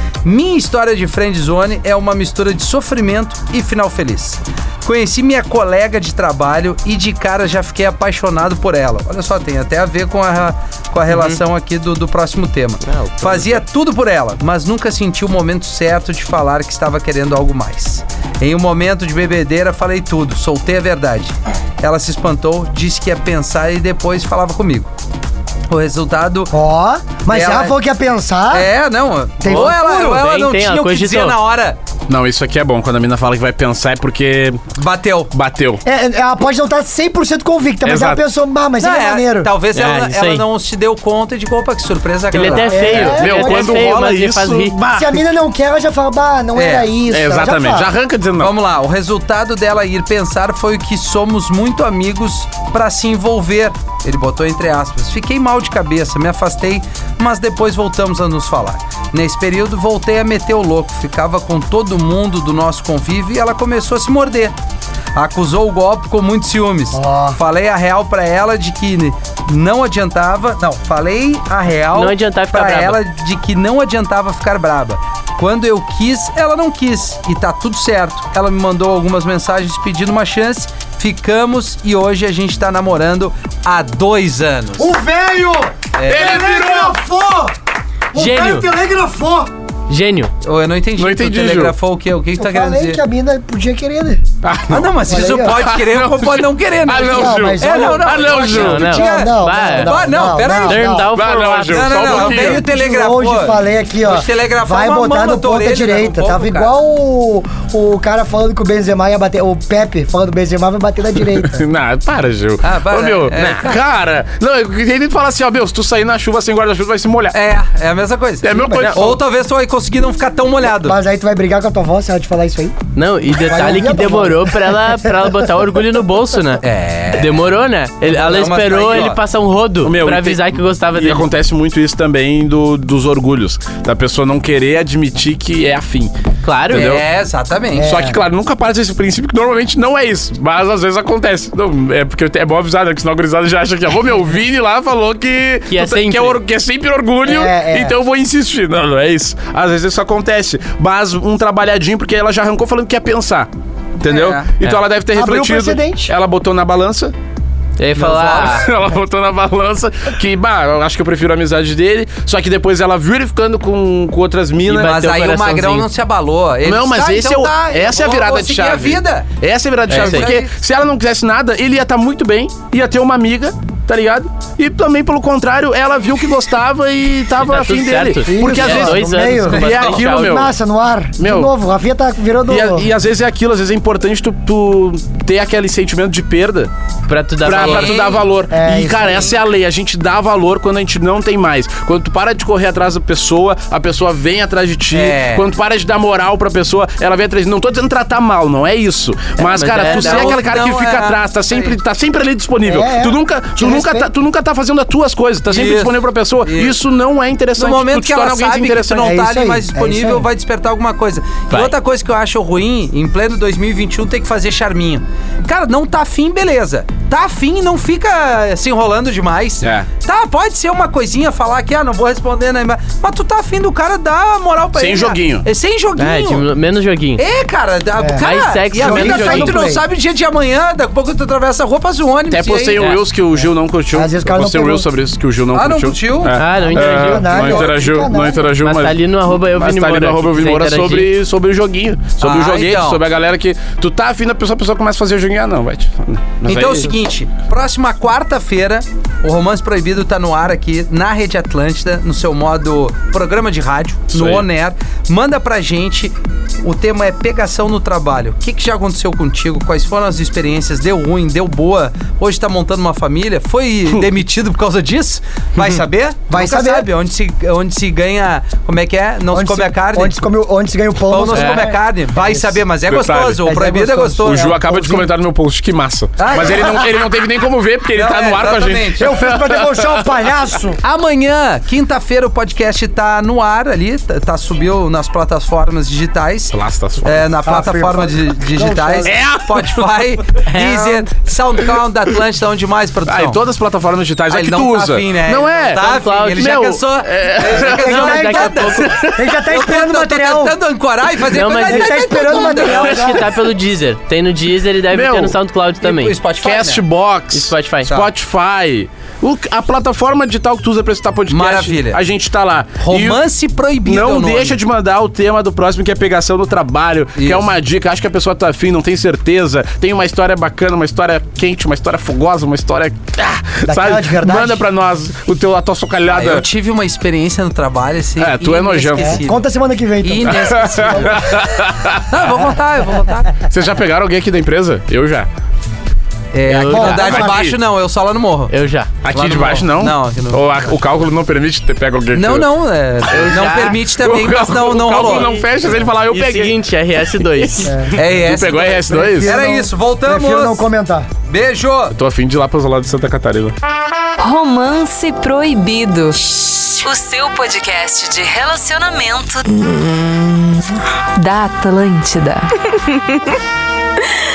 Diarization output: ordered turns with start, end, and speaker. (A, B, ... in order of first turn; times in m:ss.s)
0:00.2-0:24.9 A
0:11.1-0:11.4 B
0:12.8-0:13.6 B
0:25.7-0:26.5 A
0:26.5-0:28.7 C
0:27.3-0:27.8 A
0:28.5-0:31.8 A
0:29.4-0:30.2 C
0:29.5-0:31.4 B
0:32.1-0:34.6 D
0:34.8-0:35.3 A
0:35.3-0:35.8 D
0:35.8-0:39.5 C
0:37.8-0:38.2 D
0:38.8-0:43.0 A
0:39.7-0:40.4 B
0:42.3-0:44.8 B
0:42.6-0:45.2 D
0:42.6-0:43.8 C
0:44.9-0:47.9 C
0:46.6-0:46.9 A
0:47.1-0:48.5 D
0:48.4-1:04.5 A
1:05.1-1:24.9 A
1:06.9-1:07.4 C
1:11.9-1:13.0 B
1:24.8-1:27.6 C
1:26.0-1:26.7 A
1:26.1-1:26.9 D
1:28.1-1:29.5 C
1:28.1-1:28.7 B
1:29.9-1:30.3 B
1:30.4-1:33.0 A
1:31.0-1:31.7 D
1:32.4-1:34.2 C
1:34.4-1:38.9 D
1:34.7-1:40.9 A
1:35.1-1:35.6 C
1:36.9-1:41.1 C
1:38.4-1:39.9 B
1:40.6-1:42.3 B
1:41.1-1:42.6 D
1:41.7-1:46.7 A
1:42.3-1:51.6 C
1:51.4-1:57.4 D
1:52.6-1:53.8 A
1:57.3-2:01.0 A
1:58.4-1:59.2 D
1:58.4-1:58.9 C
1:58.7-1:59.1 B
2:00.7-2:02.8 C
2:02.9-2:11.3 B
2:03.3-2:05.3 C
2:06.6-2:07.4 A
2:08.1-2:09.2 A
2:09.8-2:16.1 D
2:16.4-2:16.9 B
2:16.7-2:17.0 D
2:16.7-2:17.9 A
2:17.8-2:18.2 C
2:17.8-2:37.1 D
2:25.7-2:26.4 B
2:27.2-2:28.0 C
2:34.1-2:34.5 A
2:35.1-2:36.1 C
2:37.8-2:38.7 B
2:38.0-2:38.6 A
2:38.4-2:45.0 D
2:44.7-2:45.9 B
2:44.7-2:49.3 A
2:46.6-3:00.5 D
2:49.9-2:50.3 B
2:49.9-2:50.5 A
2:57.4-3:00.5 B
2:58.2-3:02.9 C
2:59.5-3:00.0 A
3:01.2-3:01.5 D
3:02.5-3:06.7 D
3:07.1-3:08.0 B
3:07.4-3:29.1 D
3:07.6-3:08.2 A
3:08.5-3:09.3 C
3:14.9-3:15.5 A
3:19.4-3:20.4 B
3:19.8-3:21.8 A
3:22.6-3:24.1 C
3:25.5-3:26.8 A
3:27.6-3:46.4 A
3:29.0-3:30.3 C
3:39.6-3:39.9 D
3:44.7-3:45.4 D
3:46.0-3:47.2 B
3:47.2-3:52.8 A
3:48.0-3:49.8 C
3:48.2-3:49.6 B
3:48.9-3:49.3 D
3:52.3-4:06.9 D
3:53.4-3:54.8 C
3:55.5-3:56.3 A
3:56.3-3:57.6 B
3:56.6-3:58.5 C
3:57.3-3:57.7 A
3:58.6-4:01.1 B
4:02.2-4:03.0 A
4:06.4-4:30.3 A
4:14.1-4:14.4 D
4:26.3-4:26.9 C
4:29.3-4:32.5 C
4:31.0-4:34.5 A
4:32.9-4:33.5 D
4:33.4-4:35.1 C
4:34.3-4:40.1 D
4:36.2-4:37.0 A
4:36.5-4:36.8 C
4:37.9-4:39.1 A
4:39.0-4:40.8 C
4:40.8-4:53.4 A
4:46.5-4:47.3 D
4:47.4-4:49.2 C
4:49.0-4:49.8 D
4:50.4-4:51.1 B
4:53.1-4:55.8 D
4:54.3-5:03.1 A
4:55.7-4:56.6 B
4:56.4-4:57.8 D
4:57.6-5:00.6 C
4:57.8-4:58.9 B
4:58.8-4:59.3 D
5:01.3-5:06.2 B
5:01.5-5:03.3 C
5:02.8-5:03.1 D
5:04.9-5:05.4 D
5:05.8-5:06.8 A
5:06.4-5:13.2 D
5:07.3-5:07.9 B
5:11.3-5:12.0 A
5:12.8-5:14.6 A
5:13.9-5:26.4 D
5:17.2-5:17.4 A
5:23.6-5:24.6 C
5:26.1-5:29.4 A
5:28.2-5:29.2 D
5:29.0-5:31.2 C
5:30.0-5:31.4 A
5:30.3-5:32.1 D
5:32.1-5:33.4 A
5:33.5-5:35.3 D
5:36.3-5:38.5 A
5:36.5-5:37.6 B
5:36.7-5:37.4 D
5:36.7-5:37.3 C
5:38.5-5:38.9 B
5:39.0-5:42.5 D
5:39.1-5:40.5 A
5:42.1-5:45.3 A
5:43.1-5:43.8 B
5:44.0-5:46.6 D
5:45.0-5:47.8 B
5:47.3-5:49.3 D
5:47.6-5:48.0 C
5:47.9-5:50.6 A
5:48.9-5:51.1 C
5:51.3-5:51.9 A
5:51.9-5:53.6 D
5:54.2-6:03.4 E